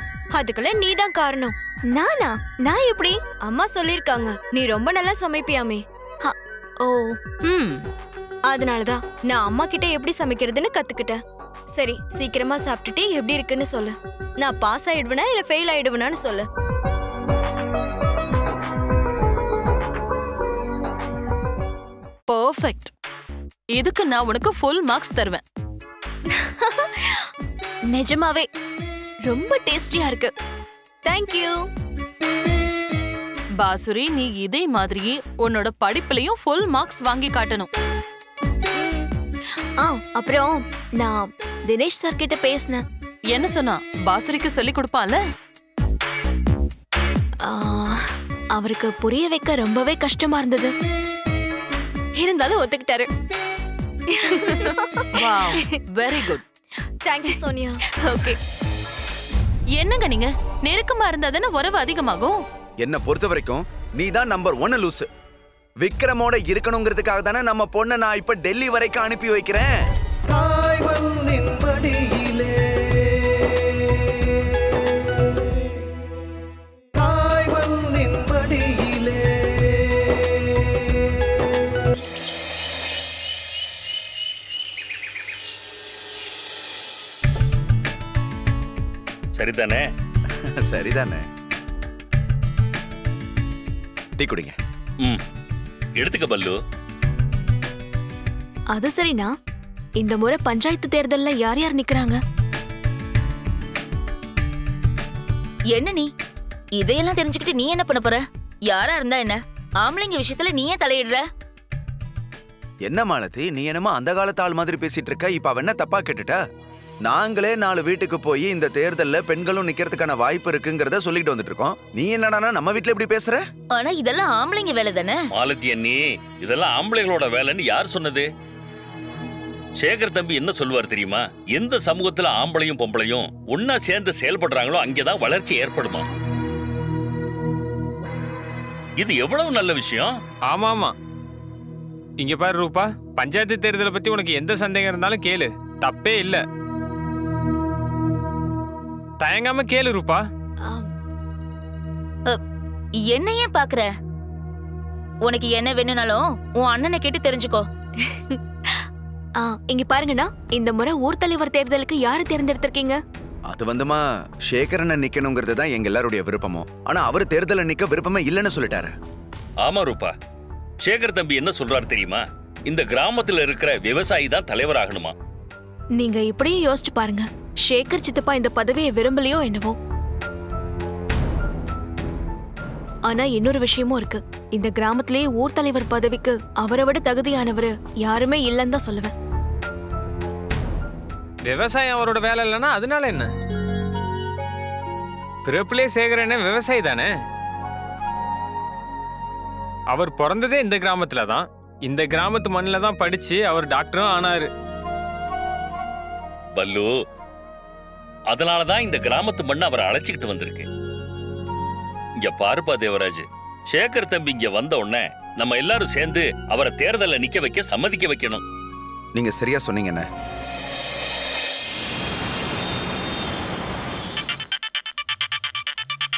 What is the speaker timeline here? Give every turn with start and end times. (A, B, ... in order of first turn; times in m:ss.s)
0:00.3-0:01.5 A
0:01.9-0:03.2 B
0:03.4-0:05.8 A
0:06.2-0:07.2 B
0:07.4-0:07.8 C
0:08.5-0:11.2 A
0:11.7-0:16.5 A
0:22.3-0:22.9 C
0:23.7-0:25.4 C
0:26.3-0:26.9 A
0:27.9-0:28.5 B
0:29.2-0:30.3 B
0:31.0-0:31.6 A
0:33.6-0:37.7 C
0:39.8-0:42.8 B
0:43.3-0:45.2 C
0:47.4-0:50.7 B
0:52.2-0:53.1 B
0:54.2-0:54.8 B
0:54.5-0:55.1 A
0:55.2-0:56.4 C
0:57.0-0:57.8 A
0:58.0-0:58.4 B
0:59.8-1:02.4 C
1:02.8-1:05.1 D
1:05.8-1:09.7 D
1:10.3-1:13.6 E
1:17.0-1:20.3 E
1:29.4-1:29.9 F
1:30.4-1:31.2 D
1:34.2-1:34.5 D
1:36.0-1:36.6 F
1:38.7-1:39.3 B
1:40.0-1:42.2 B
1:45.7-1:46.1 G
1:46.8-1:51.2 G
1:52.8-1:56.4 D
1:57.0-2:03.4 D
2:03.7-2:05.2 G
2:05.3-2:08.3 F
2:09.8-2:16.0 F
2:19.0-2:20.2 F
2:20.5-2:20.9 H
2:22.2-2:26.4 H
2:29.2-2:30.2 H
2:30.6-2:30.9 B
2:33.0-2:33.9 G
2:35.2-2:37.6 G
2:38.0-2:38.8 B
2:39.4-2:43.0 B
2:43.5-2:48.9 D
2:49.6-2:50.1 F
2:50.8-2:55.1 F
2:55.9-2:59.8 B
3:03.1-3:09.1 B
3:11.5-3:13.3 H
3:15.5-3:17.1 H
3:19.9-3:24.5 H
3:26.6-3:26.9 F
3:28.3-3:30.7 F
3:32.2-3:38.4 F
3:39.2-3:40.1 D